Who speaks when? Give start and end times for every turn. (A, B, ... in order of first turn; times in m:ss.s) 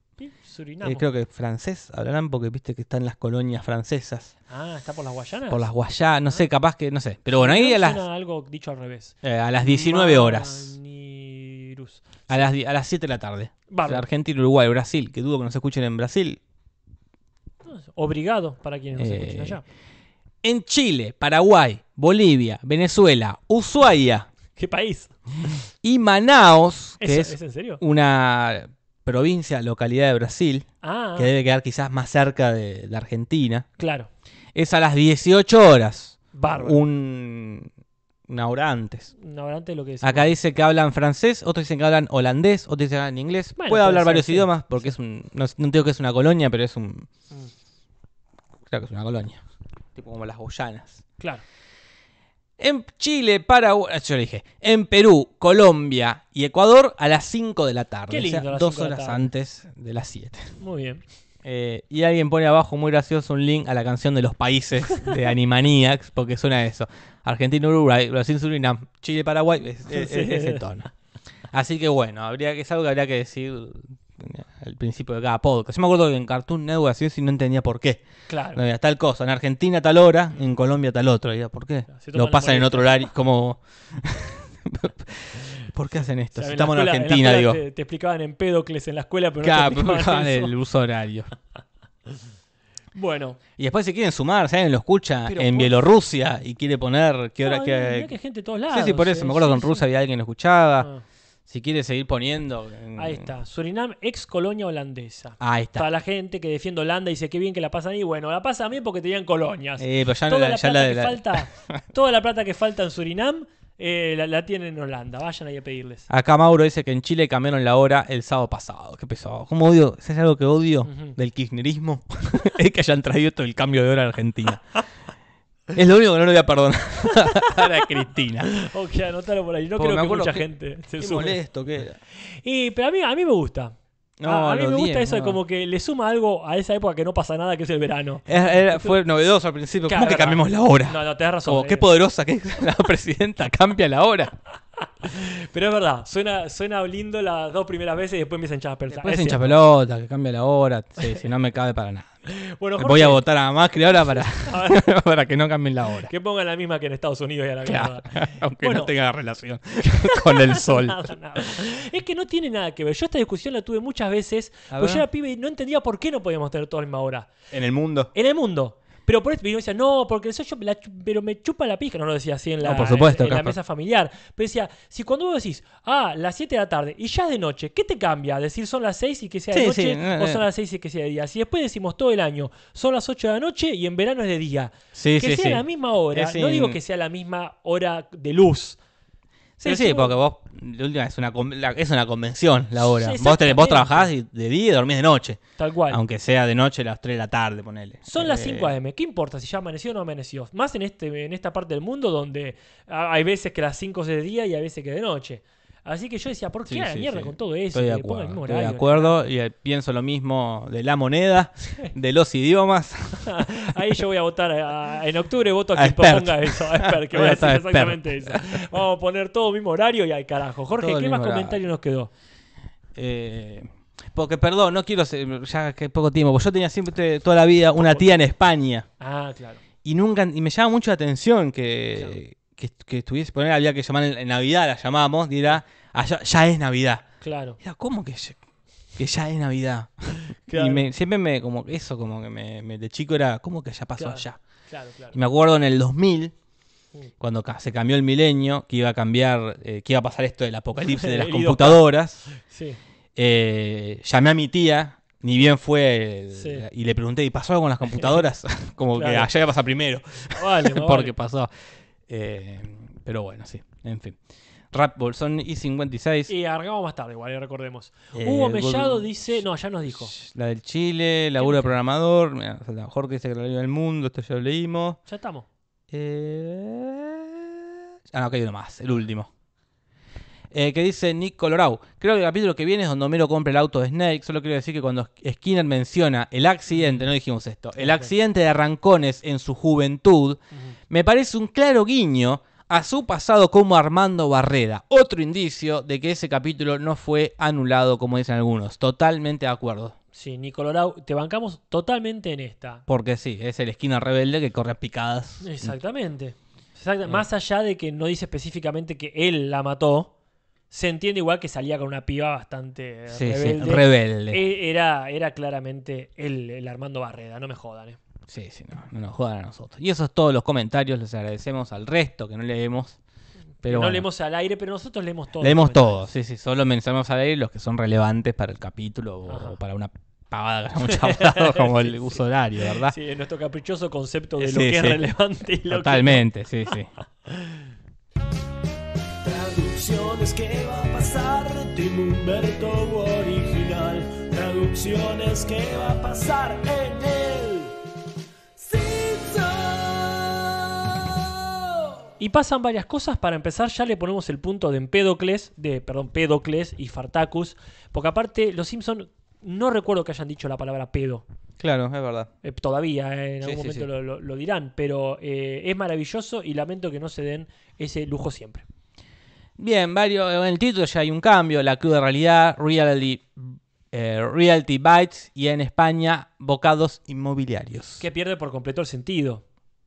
0:00.2-0:01.1 A
0:00.8-0:04.3 B
0:04.5-0:05.7 A
0:05.5-0:08.0 B
0:07.3-0:12.4 A
0:09.2-0:10.8 B
0:12.3-0:16.4 B
0:13.7-0:14.0 A
0:17.6-0:19.7 A
0:19.0-0:19.6 B
0:20.4-0:24.3 B
0:24.6-0:25.2 A
0:25.8-0:33.7 B
0:27.0-0:27.8 A
0:30.8-0:31.3 A
0:33.8-0:34.1 A
0:34.6-0:37.7 B
0:36.3-0:36.8 A
0:38.3-0:39.1 B
0:39.2-0:40.3 A
0:40.0-0:47.1 B
0:43.6-0:44.9 A
0:48.7-0:49.4 B
0:50.0-0:51.0 B
0:52.6-1:00.6 B
0:58.1-0:59.3 A
1:00.6-1:01.0 A
1:01.4-1:10.9 B
1:09.9-1:10.6 A
1:11.5-1:18.0 B
1:18.3-1:18.6 A
1:18.5-1:27.6 B
1:21.9-1:23.0 A
1:26.3-1:30.5 A
1:29.4-1:31.3 B
1:32.9-1:33.4 A
1:33.6-1:38.1 B
1:35.2-1:35.8 A
1:37.4-1:39.8 A
1:38.7-1:40.9 B
1:41.5-1:43.3 B
1:43.0-1:56.1 A
1:45.4-1:45.9 B
1:49.8-1:51.8 B
1:56.1-2:04.6 B
2:00.8-2:01.2 A
2:05.7-2:08.6 B
2:07.2-2:07.8 A
2:08.5-2:11.4 A
2:09.8-2:12.0 B
2:12.4-2:19.0 A
2:14.2-2:15.4 B
2:18.3-2:24.3 B
2:19.9-2:21.9 A
2:25.0-2:29.6 A
2:28.9-2:32.1 B
2:32.3-2:33.2 A
2:32.8-2:36.1 B
2:34.4-2:34.9 A
2:36.1-2:38.9 A
2:37.6-2:41.1 B
2:40.0-2:47.3 A
2:44.7-2:45.0 B
2:47.5-2:48.1 B
2:48.2-3:08.8 A
2:52.6-2:53.6 B
2:59.5-3:00.4 B
3:04.9-3:06.8 B
3:09.6-3:18.8 B
3:09.6-3:10.1 A
3:12.8-3:14.1 A
3:15.6-3:16.0 A
3:18.1-3:29.2 A
3:26.7-3:33.7 B
3:33.2-3:42.1 A
3:35.8-3:38.6 B
3:40.8-3:41.6 B
3:43.0-3:48.9 B
3:47.8-3:48.1 A
3:49.0-3:49.6 A
3:49.8-3:57.0 B
3:57.2-3:57.6 A
3:57.6-3:58.4 B
3:59.0-4:04.4 B
4:00.4-4:00.9 A
4:04.0-4:05.2 A
4:05.1-4:06.3 B
4:07.2-4:12.2 B
4:10.8-4:12.8 A
4:13.2-4:21.5 B
4:16.3-4:16.6 A
4:17.9-4:18.2 A
4:18.9-4:19.3 A
4:20.4-4:21.1 A
4:22.1-4:24.2 B
4:24.7-4:26.3 B
4:26.3-4:30.1 A
4:28.1-4:35.0 B
4:31.4-4:31.7 A
4:35.1-4:35.5 A
4:35.9-4:39.3 B
4:40.5-5:00.0 B
4:47.8-4:48.1 A
5:00.1-5:02.8 A
5:02.9-5:05.7 B
5:05.4-5:10.1 A
5:10.7-5:18.0 A
5:13.1-5:14.4 B
5:18.3-5:23.0 B
5:23.6-5:24.1 B
5:23.6-5:26.1 A
5:25.4-5:33.0 B
5:29.3-5:29.6 A
5:30.8-5:36.2 A
5:34.4-5:35.0 B
5:35.7-5:36.9 B
5:37.3-5:37.6 A
5:39.2-5:47.7 C
5:48.7-5:50.0 C
5:52.2-6:01.2 A
6:01.6-6:02.3 B
6:02.4-6:08.6 A
6:03.4-6:03.9 B
6:09.6-6:18.0 B
6:18.0-6:19.4 A